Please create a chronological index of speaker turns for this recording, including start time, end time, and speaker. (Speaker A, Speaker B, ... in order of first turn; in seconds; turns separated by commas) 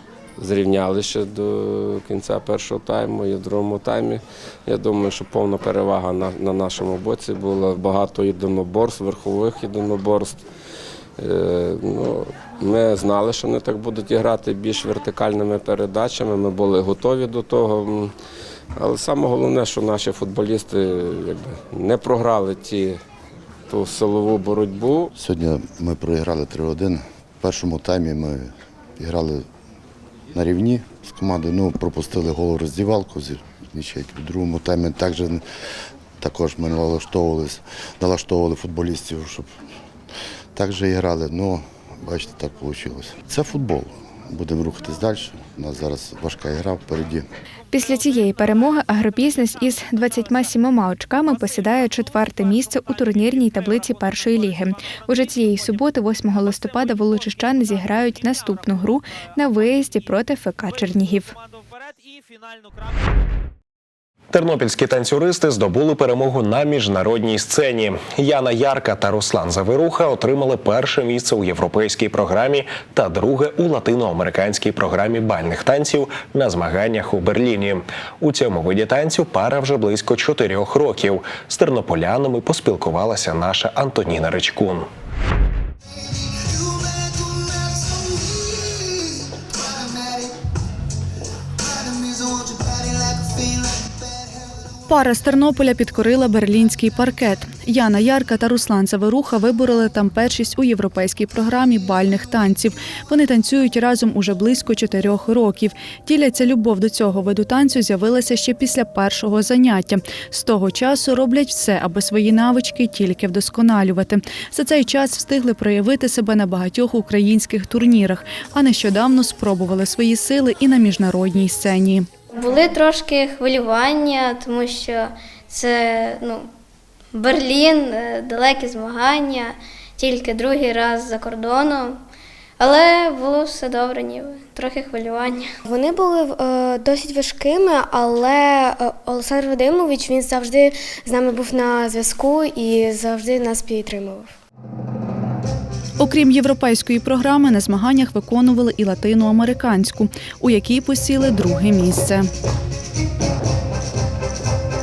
Speaker A: 0.4-10.4, Speaker A: 11.2-18.1, Speaker A: 18.8-23.0, Speaker A: 23.7-25.1, Speaker B: 25.1-29.5, Speaker B: 30.3-35.4, Speaker B: 36.2-39.5, Speaker B: 40.5-47.2, Speaker C: 47.7-61.3, Speaker D: 64.3-84.9, Speaker E: 94.9-122.1, Speaker A: 122.3-126.5, Speaker A: 127.1-132.0, Speaker A: 132.6-135.5, Speaker F: 135.7-144.3, Speaker E: 146.0-152.3